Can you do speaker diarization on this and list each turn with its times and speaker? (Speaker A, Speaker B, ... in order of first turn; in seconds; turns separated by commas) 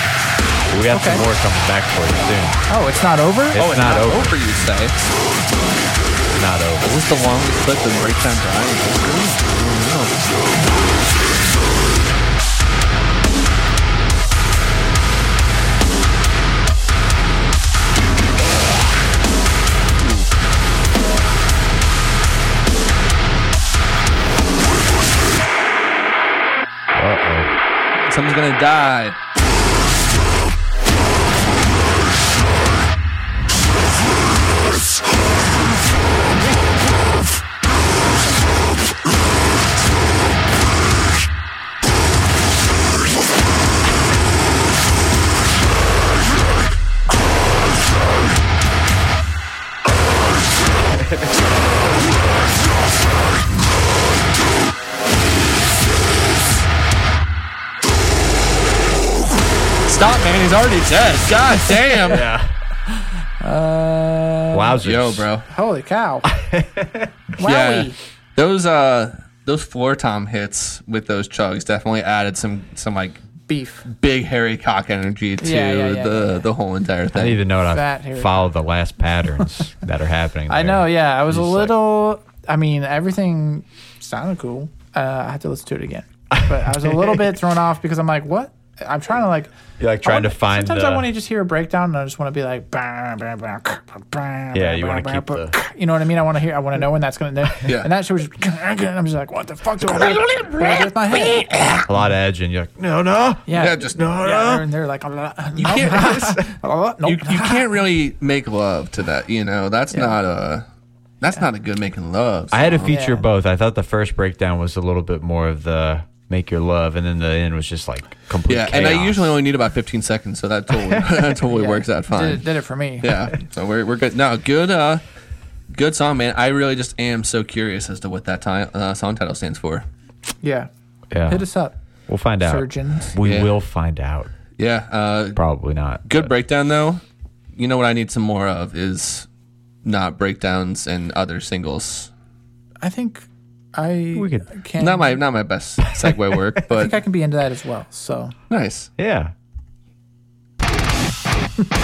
Speaker A: 0.7-2.6, Speaker B: 0.9-1.2, Speaker B: 2.7-3.7, Speaker A: 3.5-4.3, Speaker C: 3.5-4.9, Speaker A: 6.3-6.9, Speaker C: 6.8-10.3, Speaker A: 26.9-27.5, Speaker C: 28.1-29.1, Speaker C: 59.9-62.3, Speaker A: 62.0-62.5, Speaker B: 63.0-64.8, Speaker A: 64.5-65.3, Speaker C: 64.8-65.5, Speaker B: 65.5-66.3, Speaker A: 66.3-67.1, Speaker B: 67.4-68.0, Speaker C: 67.4-73.2, Speaker B: 73.5-73.8, Speaker C: 73.9-77.4, Speaker B: 75.4-76.4, Speaker A: 77.1-81.7, Speaker B: 77.6-78.5, Speaker B: 80.5-89.5, Speaker A: 86.3-87.2, Speaker A: 89.8-91.1, Speaker B: 90.0-101.8, Speaker A: 94.5-95.5, Speaker C: 100.0-101.5, Speaker A: 101.9-104.7, Speaker B: 103.5-107.7, Speaker C: 103.5-104.0, Speaker C: 105.6-106.3, Speaker C: 107.0-110.6, Speaker B: 109.9-110.2, Speaker C: 111.2-112.9, Speaker A: 112.5-119.3, Speaker B: 112.8-113.2, Speaker C: 118.5-122.4, Speaker B: 121.5-123.1, Speaker C: 123.0-125.0, Speaker C: 125.7-129.8, Speaker B: 130.4-130.7, Speaker A: 131.1-131.4, Speaker B: 131.3-131.7, Speaker A: 132.1-134.3, Speaker B: 132.4-133.1, Speaker C: 133.2-133.5, Speaker C: 134.6-135.4, Speaker A: 135.3-136.3, Speaker C: 136.1-137.0, Speaker C: 137.6-139.3, Speaker C: 139.8-142.1, Speaker B: 142.8-145.2, Speaker A: 144.1-144.5, Speaker C: 144.8-146.9, Speaker B: 146.7-148.3, Speaker C: 148.5-148.9, Speaker A: 149.0-149.3